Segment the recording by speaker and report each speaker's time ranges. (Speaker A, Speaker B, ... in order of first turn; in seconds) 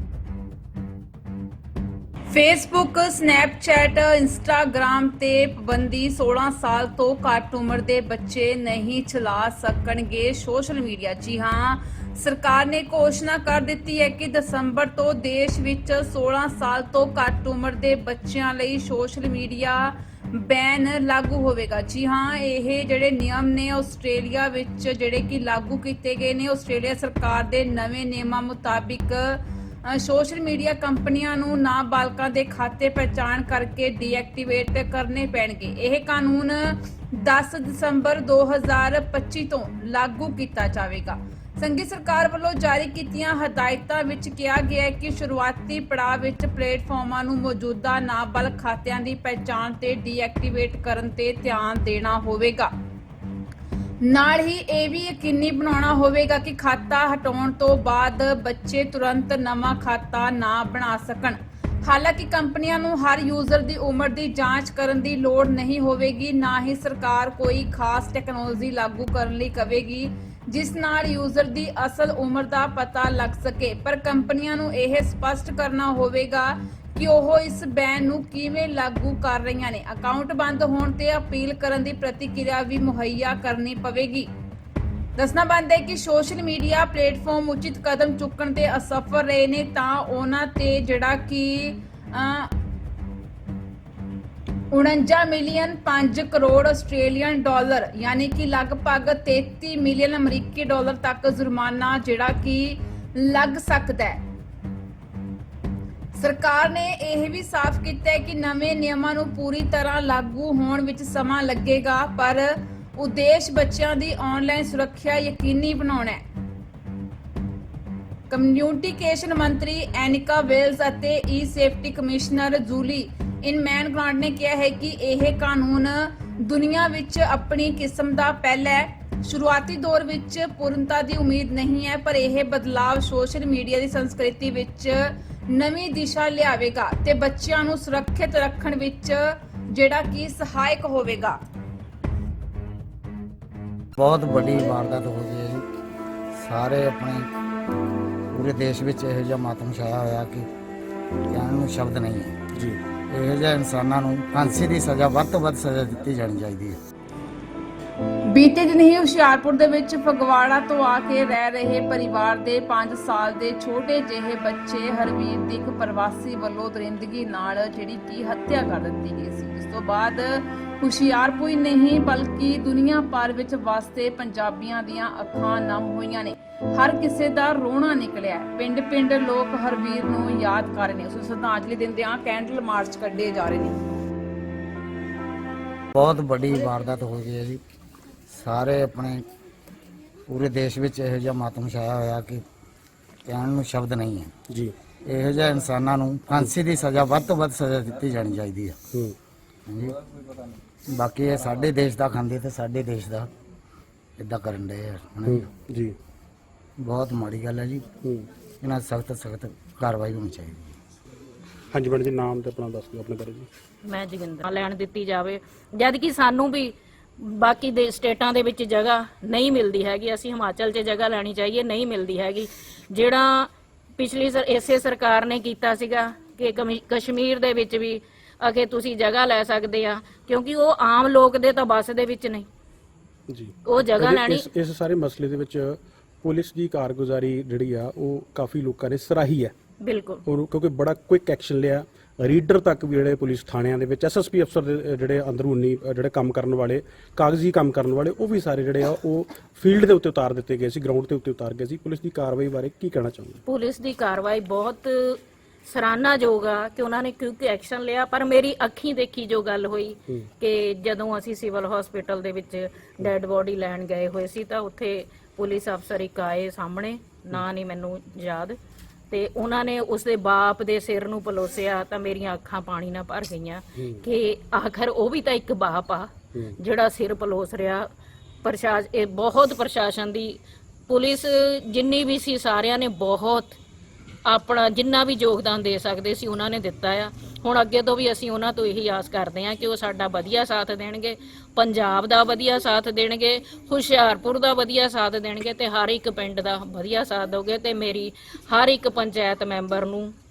Speaker A: 2.3-52.7, 54.0-84.3, 85.2-92.5, 94.7-104.2, 106.1-116.2, 118.3-141.4, 158.3-183.8
Speaker B: 144.0-145.6, 146.3-147.3, 148.3-150.5, 151.3-152.3, 153.1-156.8, 185.9-187.6, 188.3-189.2, 190.3-192.4, 193.2-194.3, 195.1-198.8, 199.7-200.0, 200.9-203.3, 204.2-205.4, 206.8-207.9, 208.6-210.7
Speaker C: 152.5-152.8, 205.3-205.9, 211.7-213.5, 233.3-239.5, 240.3-253.4
Speaker D: 213.8-232.5, 233.7-234.4, 239.8-240.2, 253.4-268.6, 269.1-276.1, 276.6-277.9, 278.4-283.6, 284.3-300.1